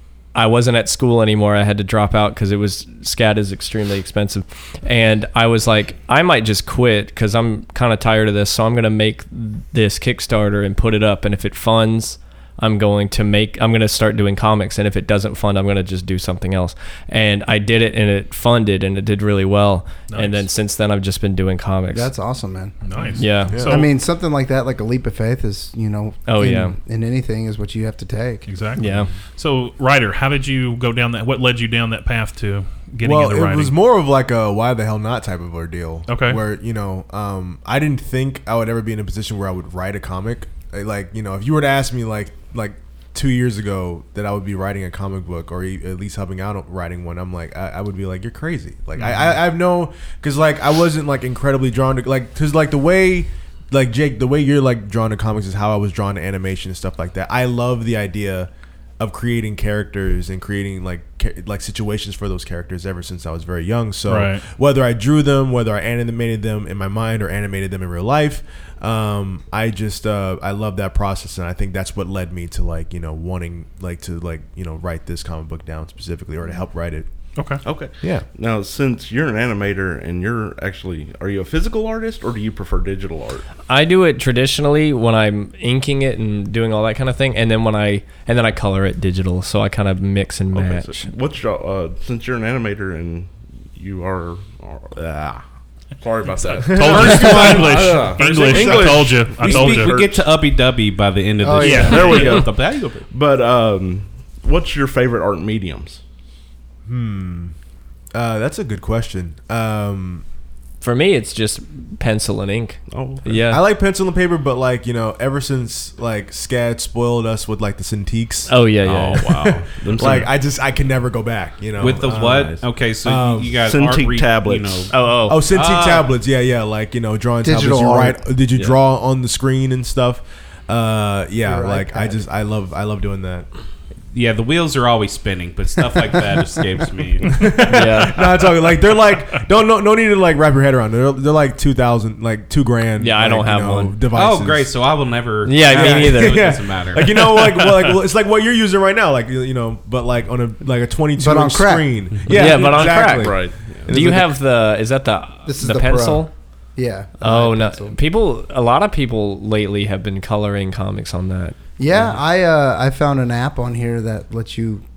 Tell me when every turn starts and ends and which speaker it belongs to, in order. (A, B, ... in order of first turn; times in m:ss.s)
0:00.4-0:22.1 A
0:20.1-0:20.4 B
0:21.9-0:28.5 C
0:22.8-0:23.9 B
0:23.2-0:23.6 A
0:23.5-0:23.9 D
0:26.3-0:26.8 A
0:28.5-0:33.7 B
0:28.8-0:29.1 A
0:33.0-1:17.1 D
0:36.1-0:36.4 B
0:49.0-0:49.3 B
1:04.1-1:04.4 B
1:17.4-1:17.6 B
1:17.6-1:23.4 E
1:23.7-1:31.1 A
1:30.5-1:35.4 E
1:36.0-1:40.3 E
1:36.6-1:40.0 B
1:36.8-1:37.8 D
1:38.2-1:42.9 F
1:41.4-1:42.4 C
1:41.6-1:42.5 B
1:41.6-1:46.0 E
1:46.9-1:47.5 D
1:48.1-1:50.2 D
1:50.8-1:53.6 A
1:52.9-1:53.4 E
1:53.5-1:58.5 D
1:58.5-1:59.5 A
1:58.8-2:00.3 E
1:59.2-2:03.6 D
2:01.8-2:04.9 F
2:03.6-2:04.9 E
2:04.9-2:05.4 A
2:05.3-2:13.5 D
2:05.5-2:06.1 F
2:07.4-2:08.2 C
2:11.4-2:12.2 C
2:14.1-2:17.3 F
2:17.2-2:24.7 D
2:17.7-2:18.2 A
2:23.0-2:24.0 A
2:24.1-2:27.1 F
2:25.5-2:26.6 A
2:25.6-2:34.3 D
2:27.3-2:28.0 B
2:31.2-2:32.0 C
2:32.3-2:33.4 A
2:32.7-2:33.9 E
2:33.9-2:36.3 A
2:35.5-2:38.0 C
2:37.2-2:41.6 A
2:41.8-2:44.8 C